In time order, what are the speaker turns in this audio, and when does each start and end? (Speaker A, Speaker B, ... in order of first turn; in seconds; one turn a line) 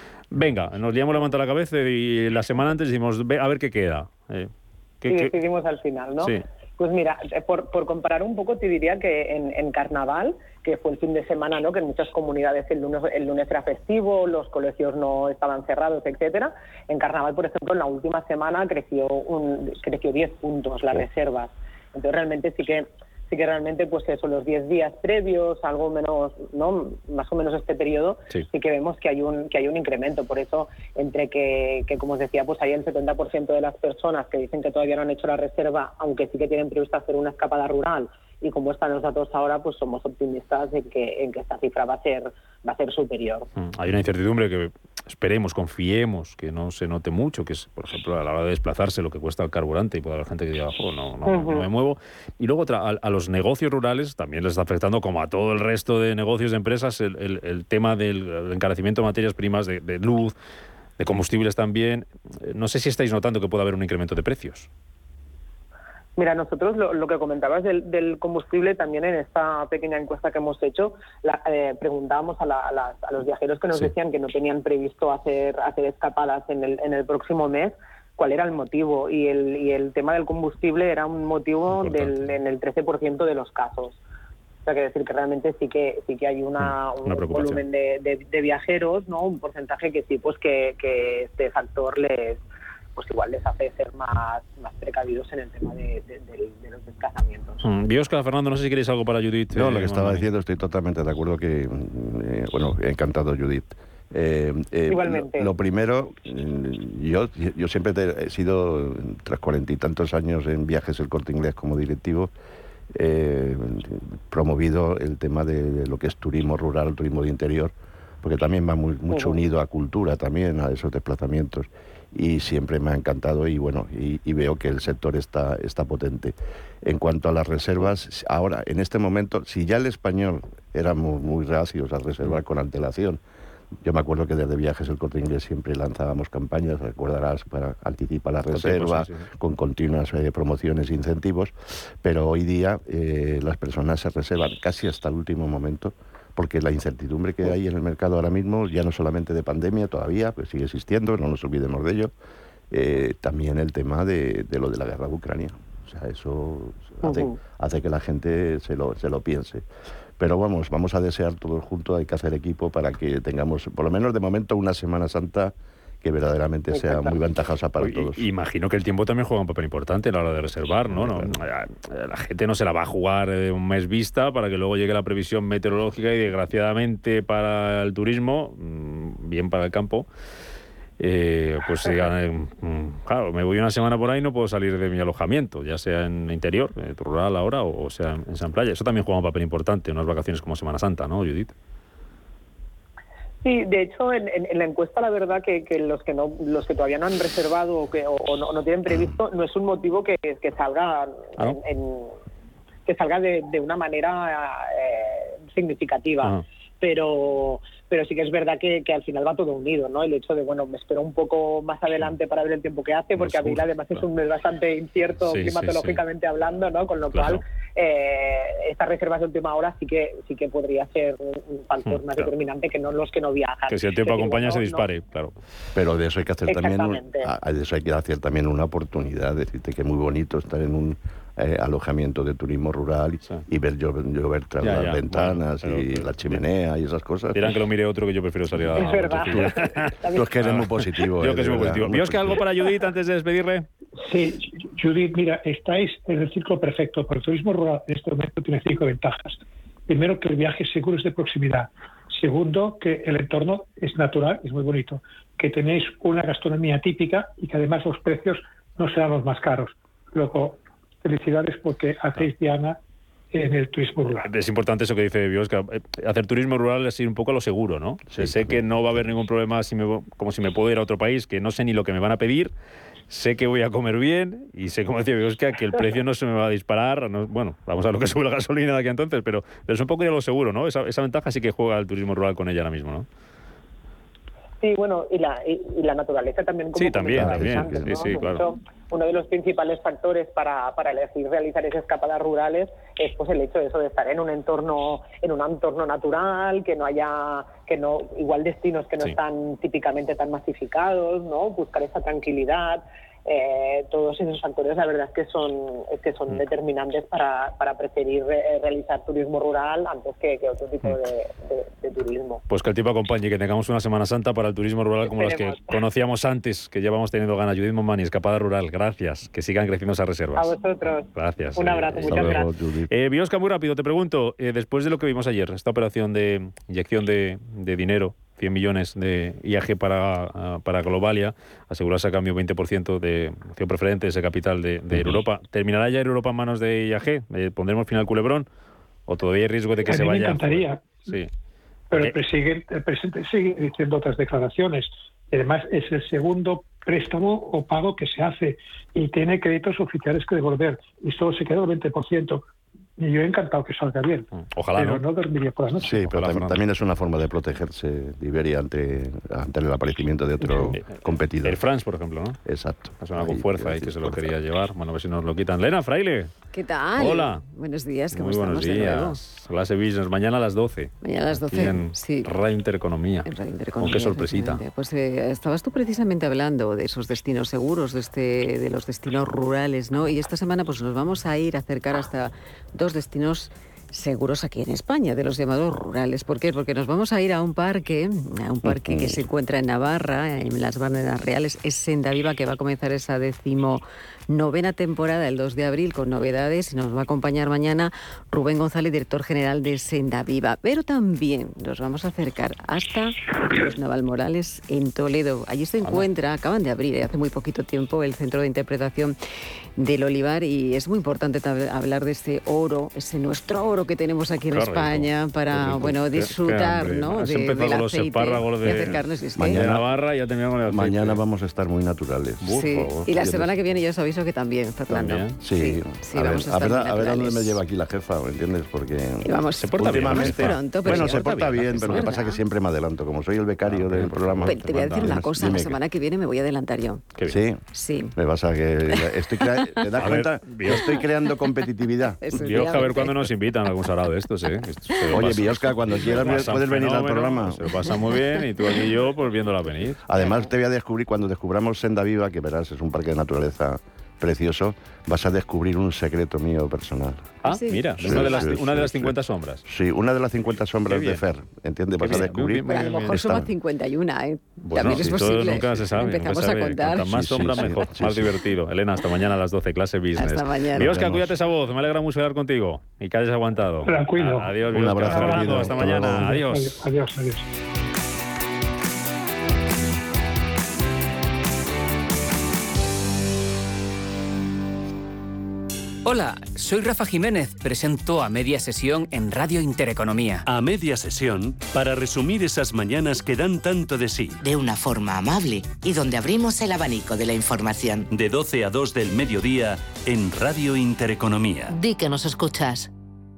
Speaker A: 0.3-5.3
Speaker B: 5.1-43.5
Speaker A: 43.6-60.3
Speaker B: 51.2-51.7
Speaker A: 61.0-64.7
Speaker B: 66.2-84.0
Speaker A: 81.7-82.3
Speaker B: 84.7-92.4
Speaker A: 86.6-87.6
Speaker B: 93.0-97.6
Speaker A: 97.6-100.3
Speaker C: 99.5-112.3
Speaker B: 104.9-105.5
Speaker C: 112.9-133.2
Speaker B: 119.1-119.4
Speaker C: 133.8-152.1
Speaker A: 138.5-139.3
Speaker C: 152.7-159.6
Speaker B: 157.0-157.4
Speaker C: 160.2-168.3
Speaker B: 166.7-167.1
Speaker A: 167.8-180.1
Speaker C: 170.9-171.4
Speaker A: 181.0-191.5
Speaker B: 193.4-202.2
Speaker B: 202.8-224.9
Speaker A: 213.2-214.0
Speaker A: 215.2-216.0
Speaker A: 217.1-217.4
Speaker A: 221.8-222.3
Speaker A: 223.7-225.3
Speaker C: 225.7-237.6
Speaker B: 226.4-227.3
Speaker A: 234.6-236.4
Speaker A: 237.3-243.7
Speaker B: 238.8-240.3
Speaker C: 239.3-242.4
Speaker D: 244.0-262.8
Speaker D: 263.3-264.3
Speaker A: 264.2-272.5
Speaker C: 268.1-268.6
Speaker A: 273.1-283.1
Speaker B: 284.6-312.4
Speaker A: 286.7-288.4
Speaker C: 287.1-288.2
Speaker A: 312.5-320.5
Speaker B: 315.0-315.7
Speaker B: 320.4-322.5
Speaker A: 321.1-338.5
Speaker C: 321.9-322.9
Speaker C: 334.9-335.2
Speaker A: 339.1-341.3
Speaker D: 339.8-341.1
Speaker D: 341.9-352.4
Speaker D: 353.0-355.9
Speaker A: 354.3-355.1
Speaker C: 355.8-361.6
Speaker A: 355.9-356.6
Speaker A: 360.4-362.4
Speaker C: 362.4-364.3
Speaker A: 363.0-366.3
Speaker E: 366.5-369.2
Speaker A: 367.0-367.4
Speaker A: 368.1-374.6
Speaker E: 371.0-372.3
Speaker E: 373.2-409.1
Speaker C: 388.6-389.2
Speaker A: 405.8-406.1
Speaker E: 409.8-419.7
Speaker A: 414.5-421.2
Speaker C: 418.6-419.9
Speaker C: 420.7-423.6
Speaker A: 422.4-423.1
Speaker E: 422.5-427.6
Speaker A: 424.9-425.4
Speaker C: 425.4-435.8
Speaker E: 429.2-432.4
Speaker A: 429.6-432.1
Speaker A: 433.6-435.2
Speaker E: 434.4-437.1
Speaker C: 437.3-442.8
Speaker E: 437.7-438.2
Speaker E: 438.9-439.9
Speaker A: 440.0-441.0
Speaker E: 440.7-441.7
Speaker E: 442.2-443.9
Speaker A: 442.3-450.0
Speaker E: 444.9-445.2
Speaker C: 445.1-447.7
Speaker E: 445.9-446.5
Speaker C: 450.1-457.3
Speaker E: 450.1-450.4
Speaker E: 457.4-458.6
Speaker A: 457.4-459.6
Speaker C: 458.0-463.5
Speaker A: 460.9-461.2
Speaker A: 462.0-463.2
Speaker E: 462.1-467.9
Speaker A: 464.6-476.8
Speaker C: 464.7-465.9
Speaker C: 467.0-468.4
Speaker E: 470.1-471.0
Speaker C: 470.7-471.4
Speaker D: 473.9-477.5
Speaker C: 474.7-476.4
Speaker F: 486.0-490.4
Speaker G: 490.4-494.4
Speaker H: 494.4-498.1
Speaker G: 498.1-501.7
Speaker H: 501.7-502.9